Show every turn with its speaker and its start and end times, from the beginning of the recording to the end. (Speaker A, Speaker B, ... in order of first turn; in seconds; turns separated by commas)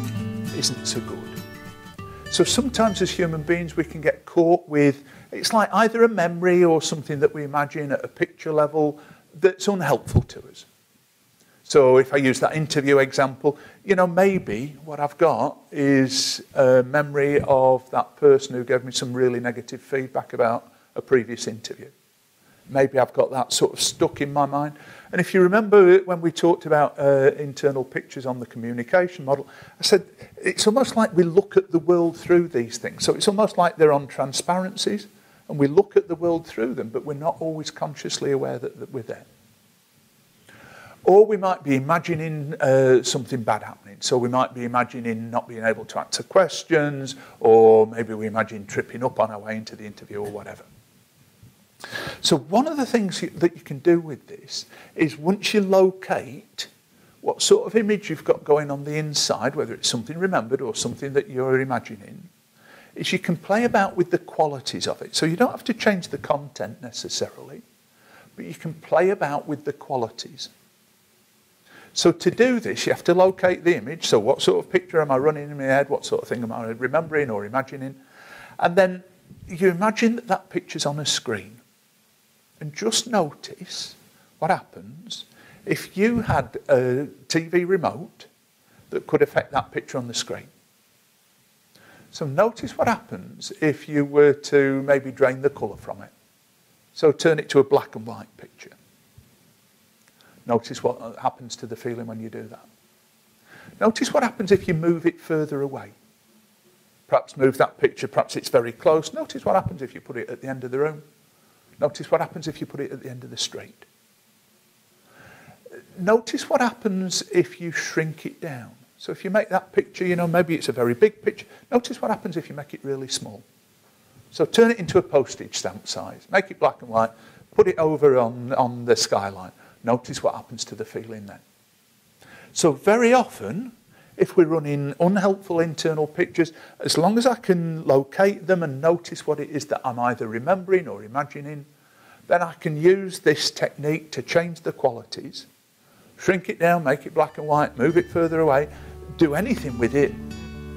Speaker A: 0.5-1.4, Speaker A: 2.3-10.7, Speaker A: 11.7-21.9, Speaker A: 22.7-39.3, Speaker A: 41.0-50.7, Speaker A: 52.2-56.7, Speaker A: 57.2-62.3, Speaker A: 62.9-67.6, Speaker A: 68.4-70.5, Speaker A: 71.9-78.0, Speaker A: 78.6-81.6, Speaker A: 82.6-88.3, Speaker A: 88.9-90.5, Speaker A: 92.1-96.1, Speaker A: 96.9-98.8, Speaker A: 100.5-102.7, Speaker A: 103.8-105.9, Speaker A: 107.1-111.0, Speaker A: 111.8-113.8, Speaker A: 116.0-123.4, Speaker A: 124.3-131.4, Speaker A: 132.5-141.7, Speaker A: 142.3-145.5, Speaker A: 146.2-150.2